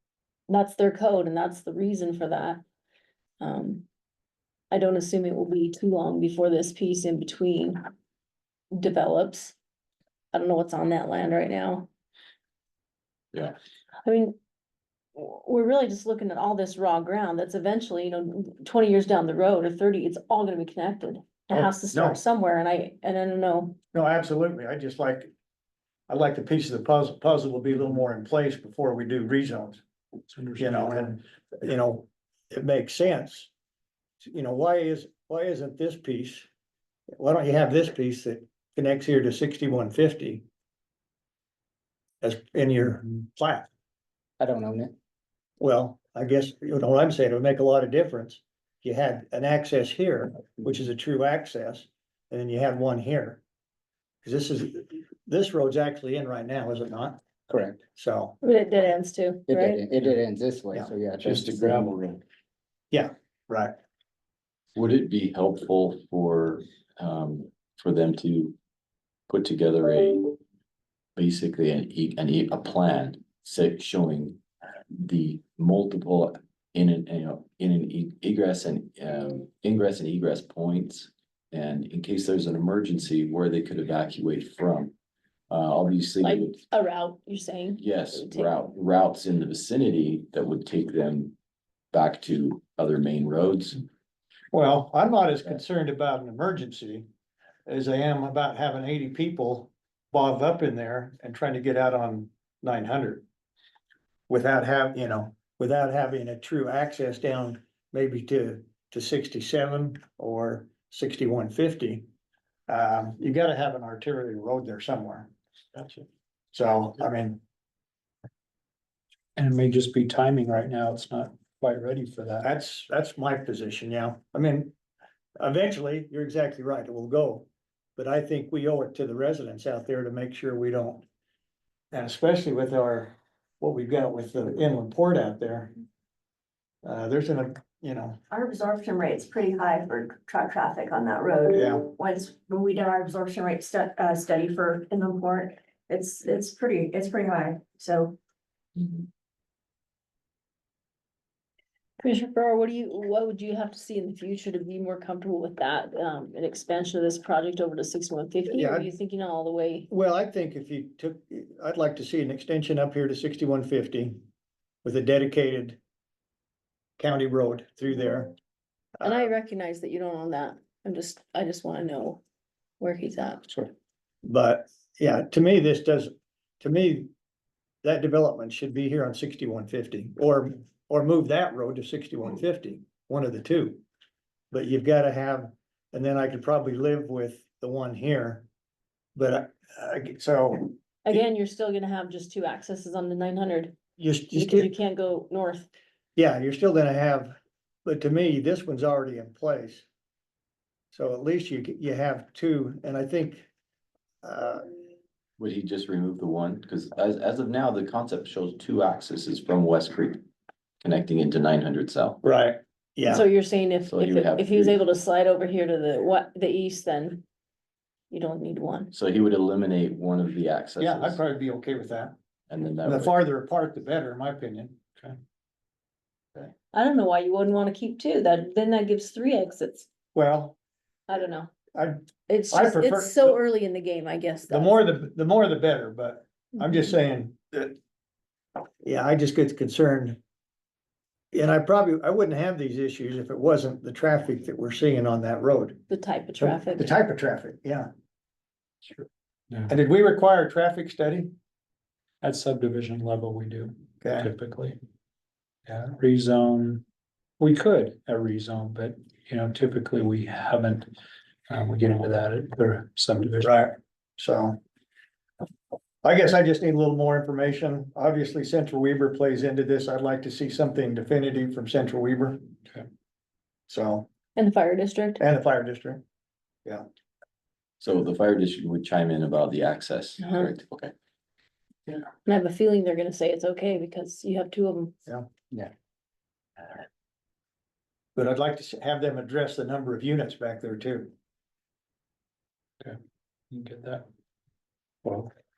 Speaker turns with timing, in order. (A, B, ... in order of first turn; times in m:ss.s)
0:00.5-0:02.6 A
0:03.4-0:03.8 A
0:04.7-0:07.8 A
0:08.7-0:09.6 A
0:10.3-0:11.9 A
0:14.0-0:14.4 A
0:15.2-0:23.8 A
0:21.6-0:22.2 B
0:23.9-0:25.3 B
0:26.1-0:29.8 B
0:30.3-0:31.1 C
0:30.6-0:33.5 B
0:34.2-0:36.5 B
0:37.2-0:40.4 B
0:42.2-0:43.7 B
0:44.4-0:45.0 D
0:45.6-0:53.4 B
0:54.2-0:57.2 B
0:57.5-0:57.8 D
0:58.0-0:58.4 B
0:58.4-0:59.8 A
0:59.5-1:02.0 D
1:01.3-1:02.0 C
1:02.9-1:03.8 B
1:04.8-1:08.6 E
1:09.3-1:10.3 E
1:11.2-1:14.4 E
1:14.9-1:24.9 E
1:25.5-1:26.6 E
1:26.2-1:28.5 A
1:27.8-1:31.4 E
1:31.9-1:33.8 E
1:34.5-1:37.0 B
1:37.7-1:43.2 B
1:44.3-1:52.1 B
1:52.7-1:57.4 B
1:59.4-2:02.5 C
2:02.4-2:04.7 B
2:05.4-2:07.5 B
2:08.0-2:11.0 B
2:11.9-2:15.7 B
2:16.8-2:18.2 B
2:18.3-2:28.1 F
2:21.5-2:21.8 B
2:32.0-2:39.9 A
2:38.5-2:38.9 B
2:39.9-2:44.2 B
2:44.8-2:45.8 B
2:47.0-2:48.3 B
2:49.0-2:49.3 B
2:49.0-2:52.2 A
2:52.8-2:53.7 A
2:54.2-2:57.1 B
2:57.8-3:03.8 B
3:04.5-3:08.5 B
3:09.2-3:10.8 B
3:11.0-3:13.8 A
3:14.0-3:14.7 B
3:14.3-3:15.7 A
3:16.2-3:19.9 B
3:20.9-3:23.5 B
3:24.2-3:24.6 B
3:25.4-3:30.2 E
3:30.8-3:32.2 E
3:32.2-3:33.2 B
3:33.1-3:37.2 A
3:33.8-3:34.8 E
3:38.1-3:38.9 A
3:38.9-3:41.2 E
3:40.8-3:42.2 B
3:42.5-3:43.2 E
3:42.8-3:44.8 B
3:46.7-3:49.9 A
3:50.1-3:50.6 B
3:51.1-3:51.5 A
3:51.8-3:53.4 B
3:52.3-3:54.8 A
3:54.5-3:57.8 B
3:58.8-4:00.2 B
4:01.3-4:05.8 B
4:05.9-4:07.0 A
4:06.4-4:07.9 B
4:09.0-4:09.7 C
4:09.7-4:11.3 B
4:12.2-4:14.8 C
4:14.0-4:14.3 B
4:15.7-4:16.8 C
4:17.4-4:20.9 C
4:21.5-4:23.5 C
4:23.4-4:24.6 B
4:26.0-4:32.4 B
4:33.7-4:34.1 B
4:34.4-4:35.2 A
4:35.2-4:36.0 B
4:37.8-4:40.9 E
4:40.2-4:40.5 A
4:42.2-4:45.0 A
4:48.2-4:51.1 B
4:53.5-4:54.0 C
4:55.0-4:55.3 C